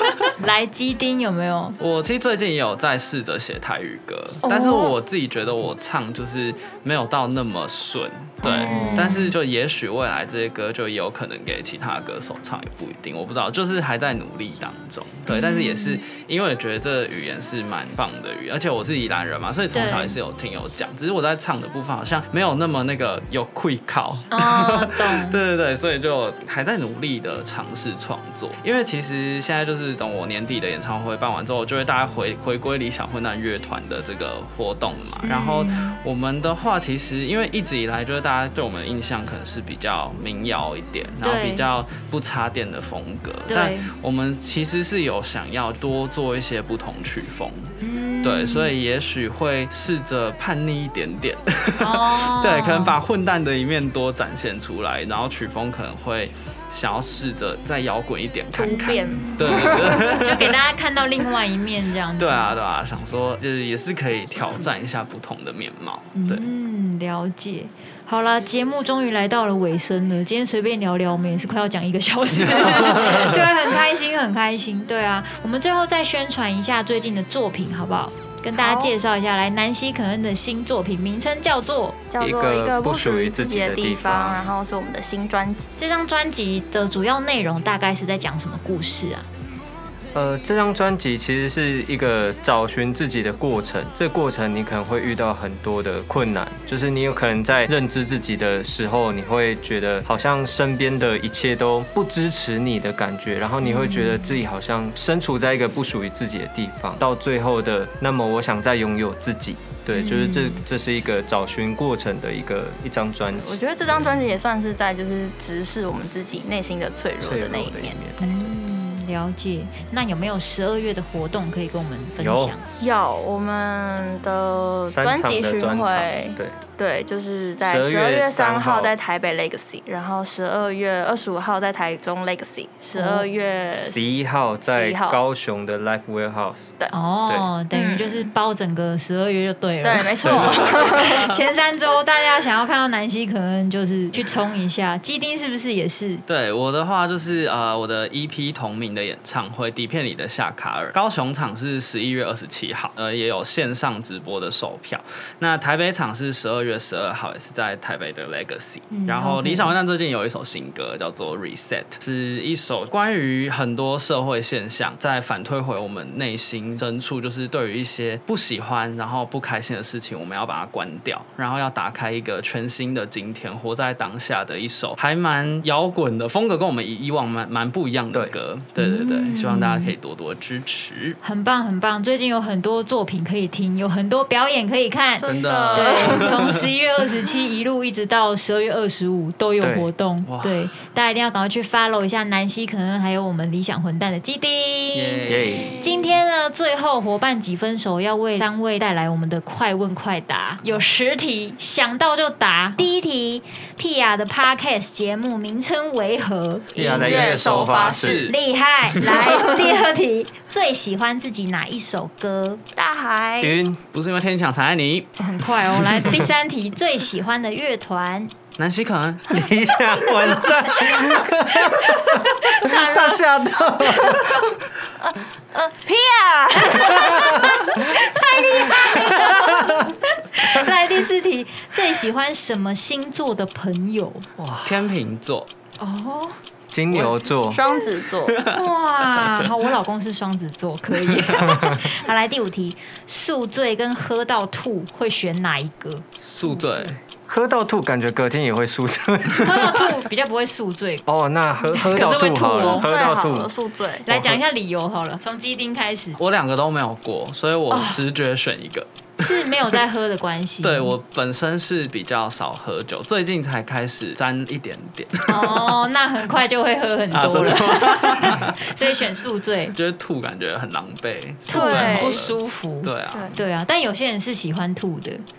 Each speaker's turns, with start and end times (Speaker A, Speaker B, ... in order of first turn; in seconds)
Speaker A: 0.4-1.8, 4.4-4.9, 8.4-9.3, 15.3-16.0, 19.7-20.2, 24.3-25.4, 35.2-36.0, 41.2-41.6, 43.5-43.9, 47.8-48.7, 51.8-53.0, 58.6-62.6, 66.2-82.0, 85.8-89.3, 103.6-104.4, 109.9-110.6, 118.2-122.6, 132.9-133.3, 136.9-146.2, 158.9-159.8, 178.8-179.9, 181.2-206.7, 208.3-212.6, 215.2-218.3, 221.8-223.2, 227.8-234.3, 235.8-236.4, 238.4-246.9, 249.3-251.1, 251.7-252.9, 254.1-256.2, 257.7-258.0, 259.2-261.0, 265.3-269.8, 271.5-275.2
Speaker B: 1.8-60.5, 62.2-66.5, 72.5-73.4, 140.2-141.3, 146.3-181.2, 185.2-186.6, 190.2-190.7, 194.9-195.8, 206.8-208.4, 208.9-209.3, 213.9-215.1, 218.6-219.4, 234.6-235.5, 246.2-247.0, 256.2-259.8, 260.6-265.8, 267.1-268.6, 269.7-273.4
Speaker C: 8.7-9.1, 82.2-84.4, 90.1-114.3, 117.2-118.5, 122.2-122.5, 124.9-126.6, 127.6-128.9, 133.8-136.7, 189.6-189.9, 195.3-195.8, 206.8-208.3, 213.4-213.8, 216.0-216.2, 219.3-224.5, 226.8-227.5, 229.4-229.8, 234.4-234.9, 236.7-237.7, 241.4-241.8, 247.1-250.0, 251.1-253.5, 254.1-254.4
Speaker D: 58.6-60.2, 78.6-78.9, 82.1-85.7, 113.3-118.0, 122.8-134.0, 134.7-135.2, 137.7-138.3, 139.8-141.3, 185.2-186.3, 206.7-208.3, 212.8-213.6, 225.0-229.8, 237.5-238.4, 252.5-254.1, 271.5-272.2, 273.1-273.4